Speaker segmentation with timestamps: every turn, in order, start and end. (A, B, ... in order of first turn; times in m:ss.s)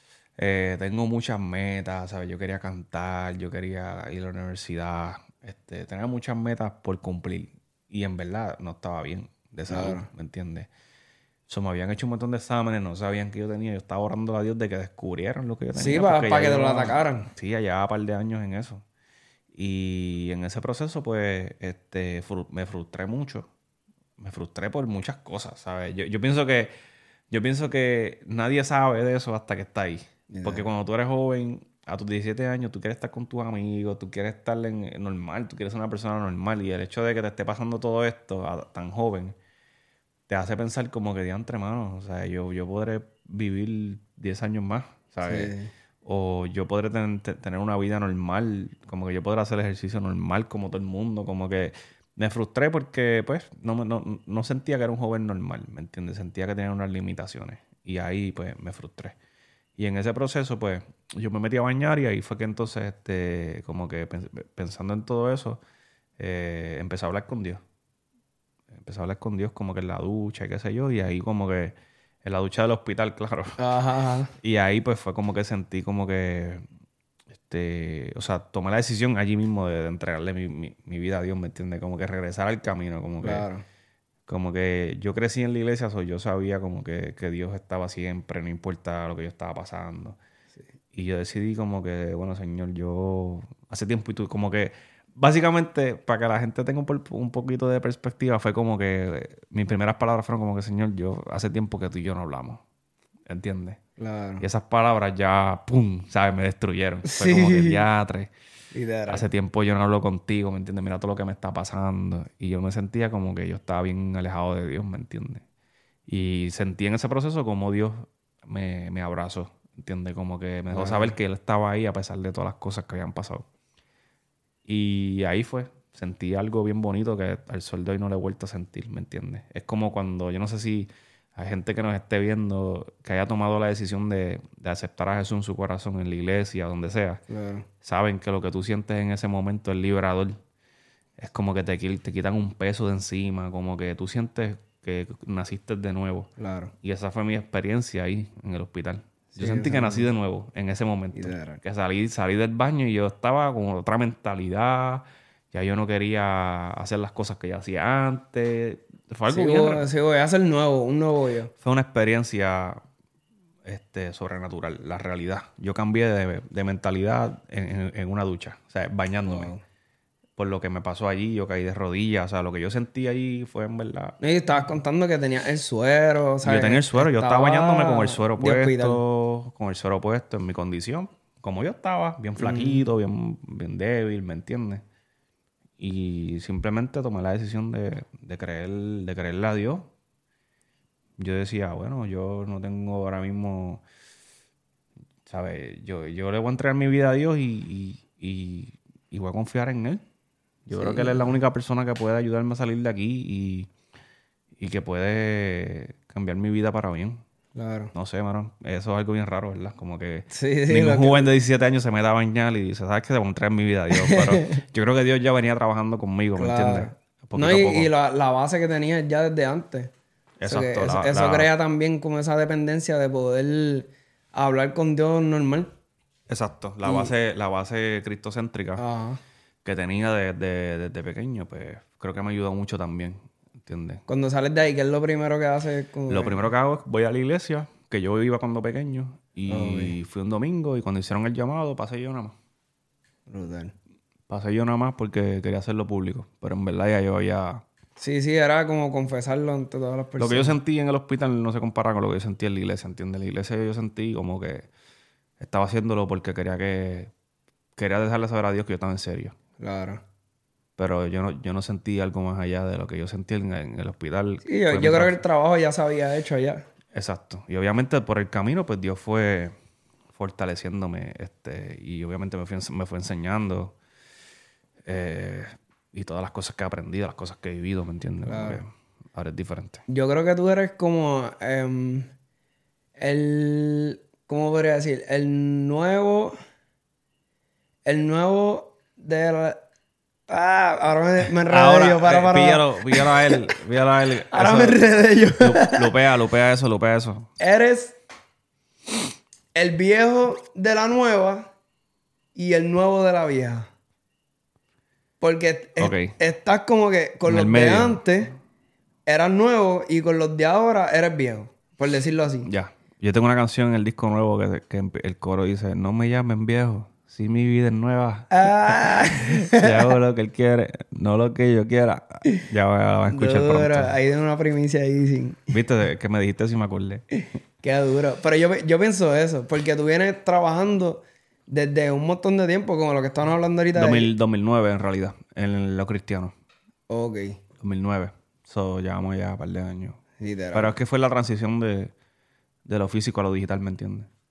0:00.4-0:10.7 A
0:09.7-0:10.1 B
0:11.5-0:18.8 A
0:15.8-0:17.3 B
0:19.5-0:23.5 A
0:24.2-0:26.7 A
0:27.3-0:39.4 A
0:30.3-0:30.7 B
0:40.3-0:45.5 A
0:45.2-0:45.7 B
0:46.0-0:59.2 A
0:59.8-1:05.6 A
1:06.2-1:07.6 A
1:08.7-1:13.6 A
1:13.6-1:14.3 B
1:14.4-1:16.6 A
1:17.3-1:23.4 A
1:23.2-1:23.6 B
1:24.3-1:30.2 A
1:30.9-1:42.6 A
1:43.3-1:43.8 A
1:44.0-1:44.4 B
1:44.4-1:48.3 A
1:47.1-1:47.8 B
1:48.7-1:49.2 B
1:49.1-1:55.4 A
1:56.1-2:03.5 A
2:00.7-2:01.2 B
2:04.6-2:17.2 A
2:17.3-2:17.7 B
2:17.8-2:20.4 A
2:21.2-2:26.3 A
2:26.4-2:26.7 B
2:26.8-2:39.9 A
2:29.4-2:30.1 B
2:31.1-2:31.6 B
2:39.3-2:41.5 B
2:41.6-2:42.8 A
2:43.6-2:49.5 A
2:49.2-2:49.6 B
2:50.4-2:54.2 A
2:54.2-2:59.0 B
2:56.4-3:04.8 A
3:02.4-3:02.9 B
3:05.8-3:09.9 A
3:11.2-3:13.8 A
3:15.3-3:20.0 A
3:20.6-3:23.7 A
3:20.7-3:21.4 B
3:24.6-3:27.2 A
3:27.6-3:27.9 B
3:27.9-3:37.9 A
3:30.3-3:31.3 B
3:33.9-3:34.6 B
3:36.4-3:39.9 B
3:40.4-3:41.5 A
3:40.4-3:45.7 B
3:46.3-3:48.8 A
3:46.8-3:47.1 B
3:48.8-3:49.2 B
3:49.6-3:54.0 A
3:54.1-3:56.5 B
3:56.1-4:02.4 A
3:59.5-4:00.0 B
4:03.3-4:03.7 B
4:04.3-4:07.6 A
4:08.0-4:10.6 B
4:10.2-4:14.7 A
4:15.4-4:17.1 A
4:17.8-4:19.3 A
4:19.6-4:20.0 B
4:20.8-4:25.2 A
4:24.4-4:26.7 B
4:26.9-4:29.5 A
4:30.1-4:33.8 A
4:34.8-4:39.8 A
4:38.2-4:38.6 B
4:39.9-4:42.1 B
4:43.0-4:46.4 B
4:47.9-4:49.6 B
4:50.3-4:53.6 B
4:51.4-4:57.3 A
4:54.3-4:55.9 B
4:57.4-4:58.0 B
4:59.6-5:01.5 B
5:02.4-5:03.7 B
5:05.2-5:08.3 B
5:05.8-5:06.1 A
5:07.3-5:08.0 A
5:09.1-5:12.5 B
5:12.4-5:24.0 A
5:18.3-5:20.0 B
5:23.1-5:25.6 B
5:25.5-5:27.0 A
5:27.6-5:34.1 B
5:33.8-5:36.3 A
5:36.9-5:37.4 B
5:37.6-5:40.0 A
5:40.2-5:40.8 B
5:40.5-5:41.9 A
5:42.6-5:44.1 A